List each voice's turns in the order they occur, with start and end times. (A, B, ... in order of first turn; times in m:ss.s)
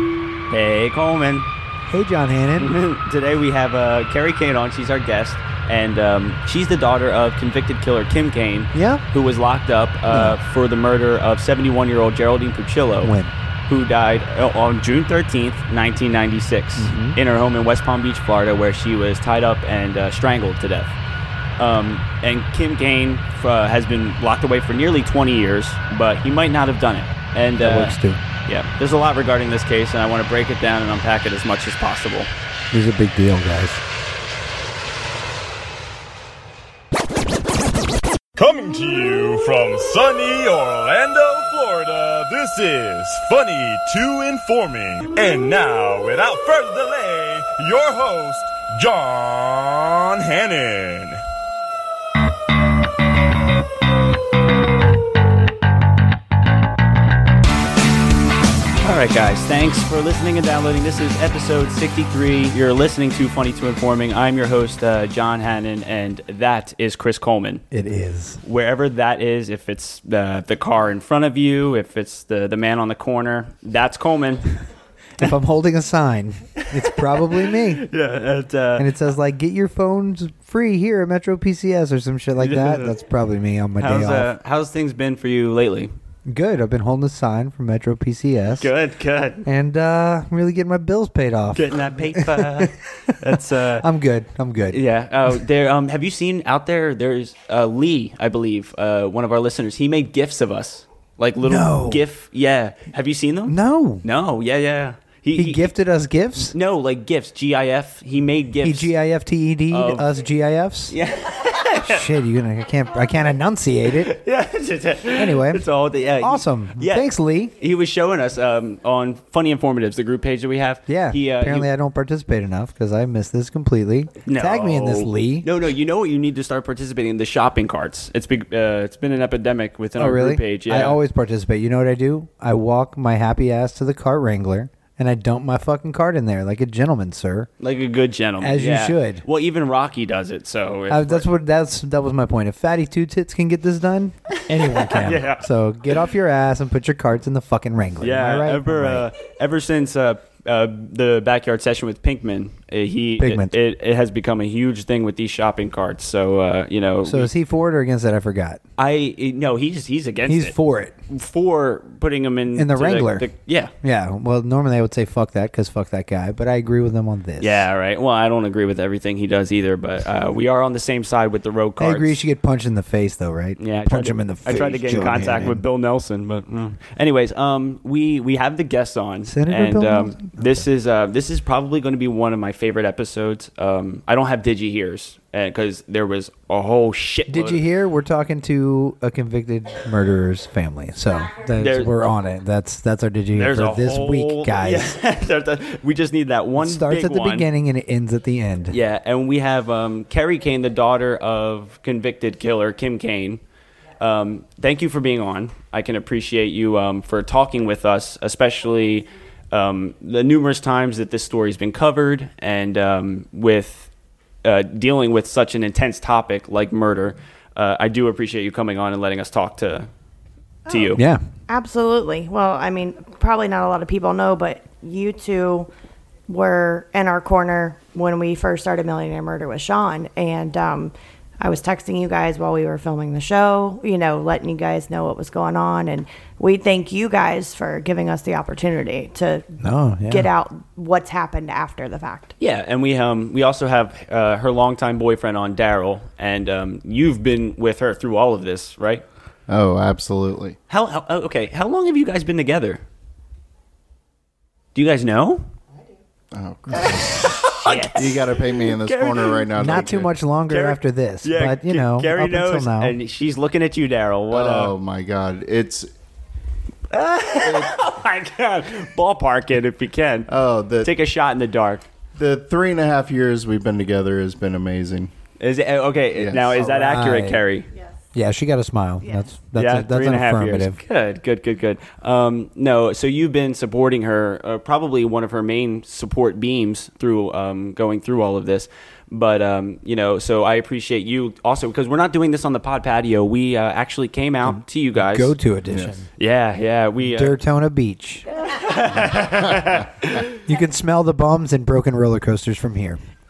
0:00.5-0:01.5 A
0:01.8-0:02.8 B
0:02.6-0:13.1 A
0:08.7-0:09.0 B
0:10.1-0:10.4 B
0:13.0-0:13.3 B
0:13.7-0:20.9 A
0:16.8-0:17.2 B
0:21.6-0:27.9 A
0:27.6-0:28.2 B
0:28.5-0:32.3 A
0:32.7-0:33.8 B
0:38.3-0:51.2 C
0:58.8-1:07.6 A
1:07.7-1:08.4 B
1:08.4-1:14.5 A
1:15.2-1:17.9 B
1:16.6-1:18.9 A
1:18.8-1:24.3 B
1:22.4-1:23.0 A
1:23.8-1:25.9 A
1:26.3-1:28.7 B
1:28.6-1:29.4 A
1:29.4-1:34.8 B
1:31.5-1:33.9 A
1:34.7-1:45.7 A
1:41.4-1:42.0 B
1:43.5-1:44.0 B
1:45.3-1:46.5 B
1:46.5-1:48.9 A
1:48.6-1:50.9 B
1:49.7-1:50.1 A
1:50.9-1:52.0 A
1:51.8-1:54.2 B
1:54.0-1:57.1 A
1:55.1-1:55.7 B
1:56.2-1:57.5 B
1:57.6-2:01.7 A
2:00.9-2:05.5 B
2:04.2-2:11.0 A
2:10.0-2:17.5 B
2:17.6-2:21.3 A
2:18.4-2:19.2 B
2:20.9-2:29.1 B
2:24.7-2:25.4 A
2:28.0-2:37.3 A
2:33.2-2:33.5 B
2:37.0-2:38.6 B
2:38.8-2:40.5 A
2:40.2-2:41.0 B
2:41.1-2:43.7 A
2:42.5-2:43.3 B
2:43.8-2:47.6 B
2:47.4-2:52.2 A
2:51.8-2:55.6 B
2:53.6-3:07.6 A
2:59.3-3:00.6 B
3:07.3-3:15.0 B
3:11.6-3:11.9 A
3:13.3-3:17.5 A
3:16.6-3:18.8 B
3:18.7-3:23.4 A
3:24.0-3:33.9 A
3:34.4-3:39.9 A
3:40.7-3:41.0 A
3:40.7-3:40.9 D
3:40.9-3:41.2 B
3:41.5-3:45.7 D
3:46.3-3:59.6 D
3:59.6-4:00.3 B
4:00.1-4:02.3 D
4:02.4-4:09.0 A
4:09.5-4:10.6 E
4:10.7-4:12.8 A
4:14.7-4:15.4 A
4:16.3-4:20.1 E
4:16.7-4:19.7 A
4:19.6-4:23.0 B
4:20.5-4:24.7 A
4:24.3-4:25.9 E
4:26.9-4:30.3 A
4:27.4-4:27.7 E
4:30.3-4:30.9 E
4:30.8-4:31.8 A
4:32.2-4:35.1 E
4:35.4-4:37.7 A
4:36.1-4:36.7 E
4:36.6-4:37.4 B
4:38.1-4:40.8 B
4:39.0-4:39.3 D
4:39.5-4:55.3 A
4:54.4-4:56.0 B
4:55.7-4:56.0 E
4:56.2-4:57.4 A
4:57.0-4:58.2 B
4:58.4-5:00.3 A
5:00.3-5:03.0 B